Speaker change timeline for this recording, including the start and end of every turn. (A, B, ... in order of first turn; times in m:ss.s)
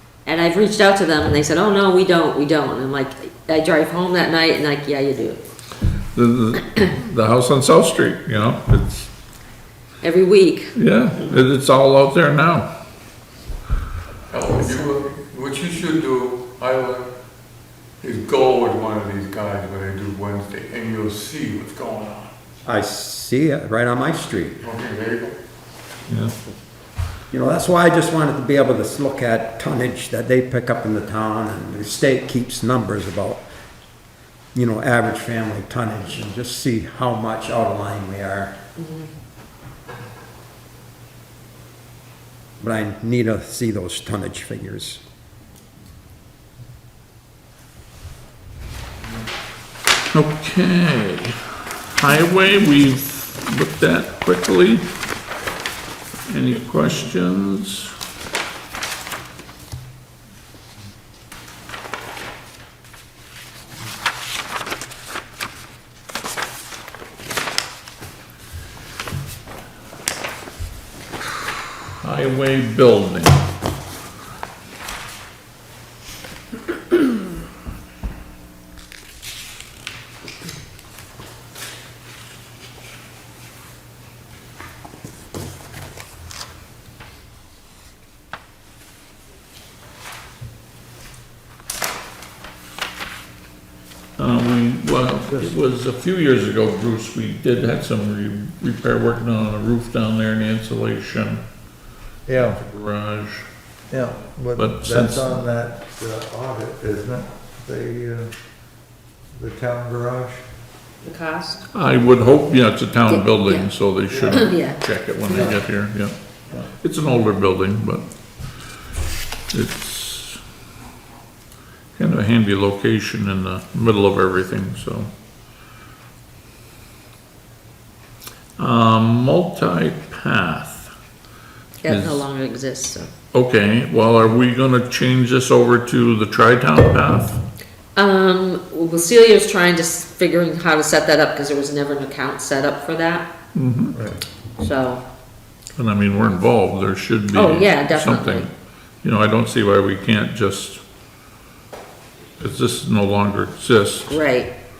0:00.2-0:05.4 A
0:06.1-0:09.1 B
0:10.0-0:10.7 A
0:10.8-0:12.7 B
0:14.3-0:17.1 C
0:18.0-0:22.3 C
0:22.6-0:24.6 D
0:24.6-0:25.3 C
0:26.1-0:26.3 B
0:27.3-0:33.4 D
0:34.5-0:38.6 D
0:38.8-0:39.1 A
0:42.6-0:45.0 D
0:50.1-0:54.9 B
0:56.3-0:58.0 B
1:12.0-1:13.4 B
1:34.2-1:41.4 B
1:35.3-1:35.6 E
1:42.3-1:42.6 E
1:42.4-1:43.4 B
1:43.9-1:48.3 E
1:44.6-1:45.4 B
1:49.4-1:50.4 E
1:51.0-1:51.6 A
1:51.7-1:58.1 B
1:53.1-1:54.8 A
1:59.5-2:00.4 B
2:02.0-2:05.1 B
2:08.6-2:10.9 B
2:11.8-2:13.1 A
2:11.8-2:12.2 B
2:13.3-2:17.4 B
2:18.0-2:23.3 A
2:23.6-2:24.0 B
2:23.9-2:24.2 E
2:24.6-2:25.0 A
2:25.8-2:28.5 B
2:27.3-2:28.5 A
2:29.0-2:30.8 B
2:32.4-2:34.1 B
2:34.1-2:34.5 A